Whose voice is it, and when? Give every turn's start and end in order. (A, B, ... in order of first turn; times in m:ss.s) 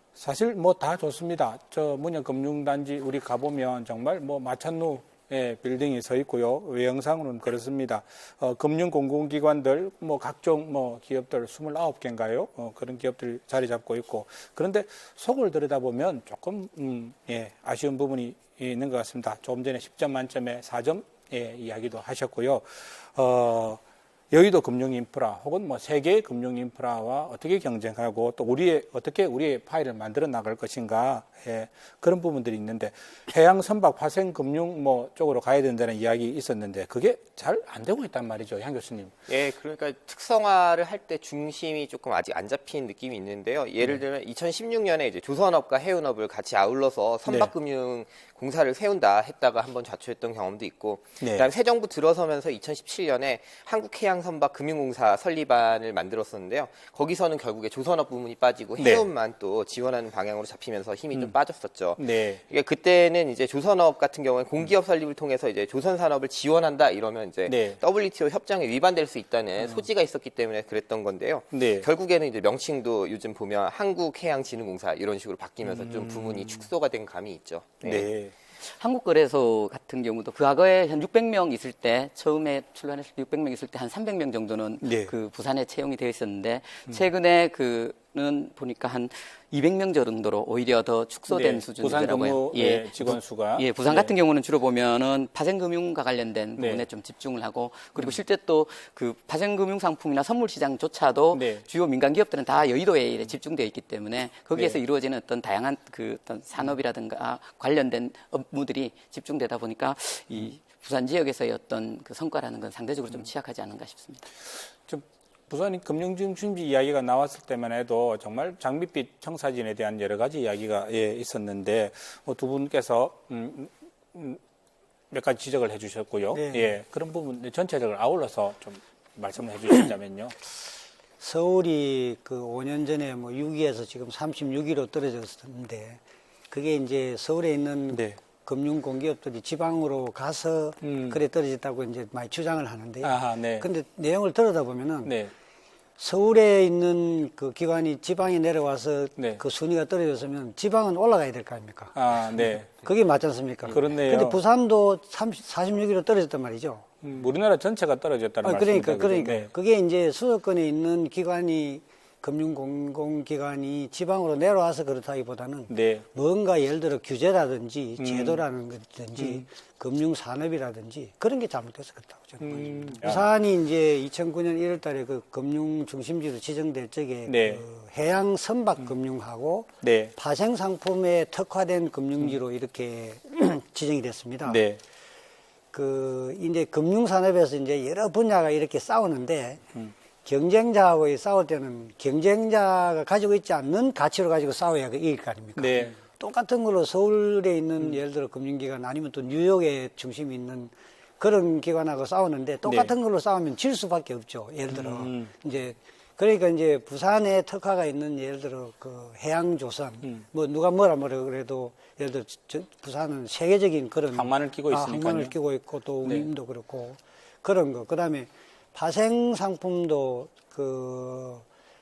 0:00.2-0:39.1 A
0:39.3-1:18.1 B
0:47.2-0:47.5 A
0:51.2-0:51.5 A
0:58.8-0:59.1 A
1:02.0-1:02.4 A
1:07.5-1:07.8 A
1:09.6-1:09.8 A
1:11.5-1:11.9 A
1:15.6-1:16.6 A
1:17.8-1:18.3 A
1:18.6-1:54.2 C
1:24.8-1:25.1 A
1:31.3-1:34.1 A
1:36.6-1:36.8 A
1:41.3-1:41.6 A
1:54.5-2:04.4 A
2:05.1-2:10.4 A
2:06.3-2:06.7 D
2:11.2-2:25.1 D
2:17.9-2:18.2 A
2:20.8-2:21.2 A
2:23.0-2:23.7 A
2:25.0-2:25.3 A
2:26.0-2:31.9 D
2:31.9-2:32.8 A
2:32.5-2:36.8 D
2:33.7-2:34.4 A
2:37.0-2:39.5 A
2:38.4-3:04.6 D
2:45.7-2:46.1 A
2:48.0-2:48.4 A
2:49.2-2:49.4 A
2:52.4-2:53.3 A
2:57.2-2:57.6 A
2:59.8-3:00.1 A
3:04.4-3:04.8 A
3:05.7-3:09.6 D
3:10.2-3:41.4 D
3:15.6-3:16.0 A
3:22.6-3:22.9 A
3:24.7-3:25.3 A
3:34.1-3:35.3 A
3:36.0-3:36.3 A